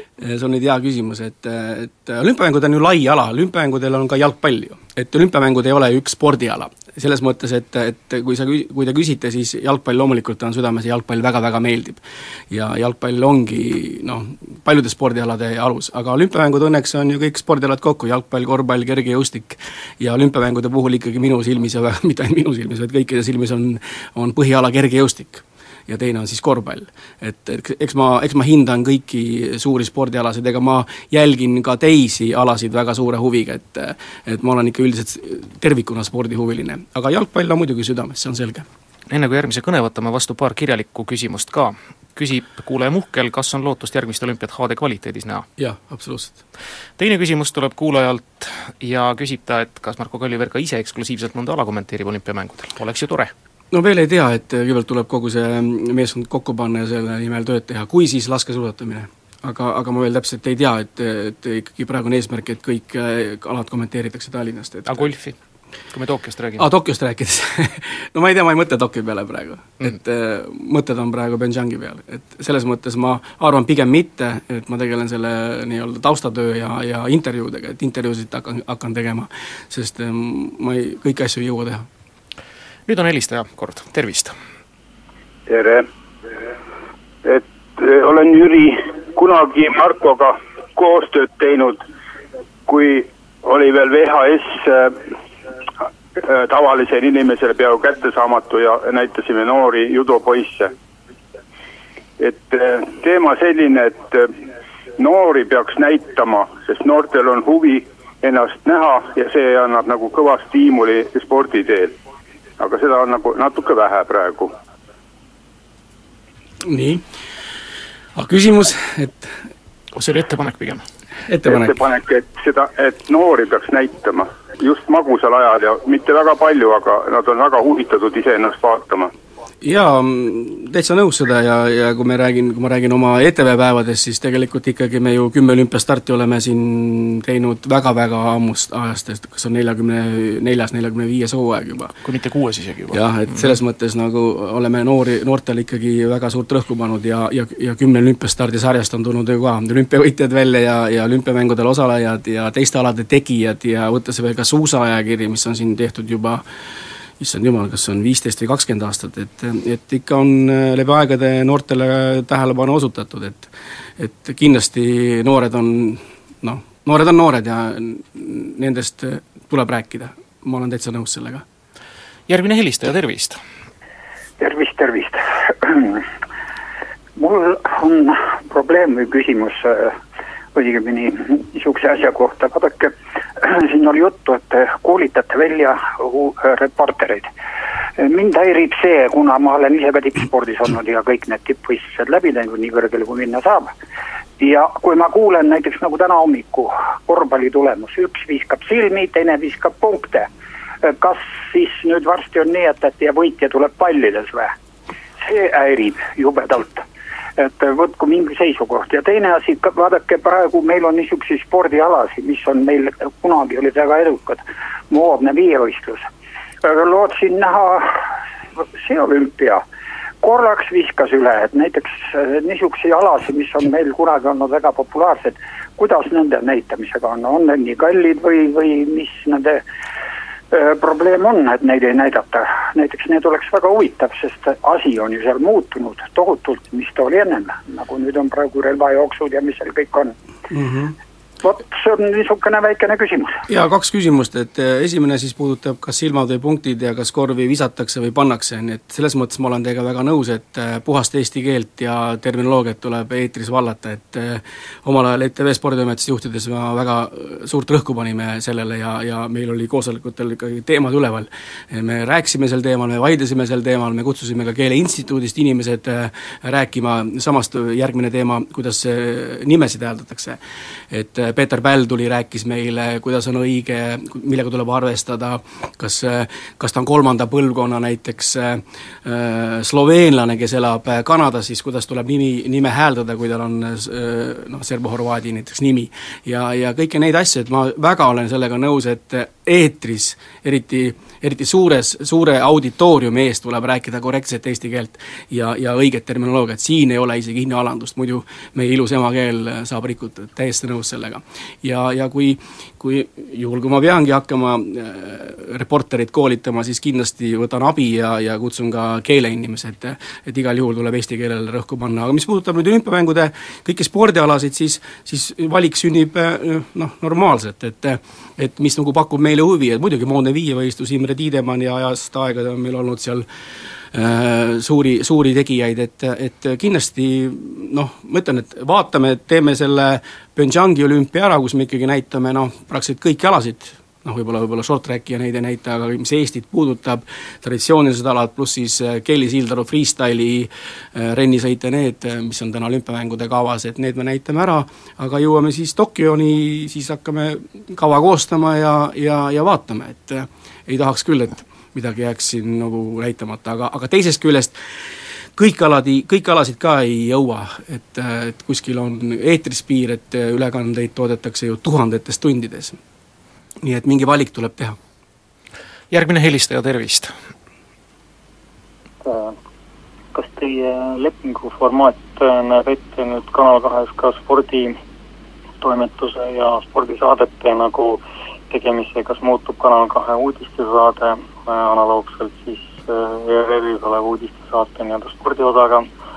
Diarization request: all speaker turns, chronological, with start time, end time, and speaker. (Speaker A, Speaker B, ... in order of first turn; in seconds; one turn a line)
Speaker A: 0.2-38.6
Speaker B: 39.1-45.5
Speaker A: 45.6-46.4
Speaker B: 47.0-53.3
Speaker A: 53.7-65.1
Speaker B: 64.9-65.3
Speaker B: 65.9-66.7
Speaker A: 66.6-81.8
Speaker B: 82.9-84.3
Speaker C: 85.5-85.8
Speaker C: 87.2-91.8
Speaker C: 92.7-95.0
Speaker C: 96.2-100.7
Speaker C: 102.2-104.3
Speaker C: 105.0-111.9
Speaker C: 112.6-114.5
Speaker A: 116.6-117.0
Speaker A: 118.1-119.3
Speaker B: 119.9-120.8
Speaker A: 121.3-121.8
Speaker C: 121.5-129.1
Speaker A: 129.6-141.9
Speaker B: 142.0-143.5
Speaker A: 142.9-156.4
Speaker A: 157.2-171.4
Speaker B: 172.3-173.4
Speaker D: 174.4-176.0
Speaker D: 177.2-180.0
Speaker D: 180.5-187.3
Speaker D: 188.0-193.7
Speaker D: 194.4-200.3
Speaker D: 200.8-204.5
Speaker D: 205.2-206.8
Speaker D: 207.4-216.1
Speaker D: 216.6-218.0
Speaker D: 218.6-219.6
Speaker D: 220.2-229.6
Speaker D: 230.5-240.1
Speaker A: 240.5-240.9
Speaker D: 241.4-243.4
Speaker A: 243.5-270.4
Speaker A: 270.9-323.2
Speaker A: 323.9-354.6
Speaker A: 355.4-362.8
Speaker A: 363.6-364.8
Speaker B: 365.9-367.1
Speaker E: 369.0-369.4
Speaker E: 370.1-374.8
Speaker E: 375.6-385.9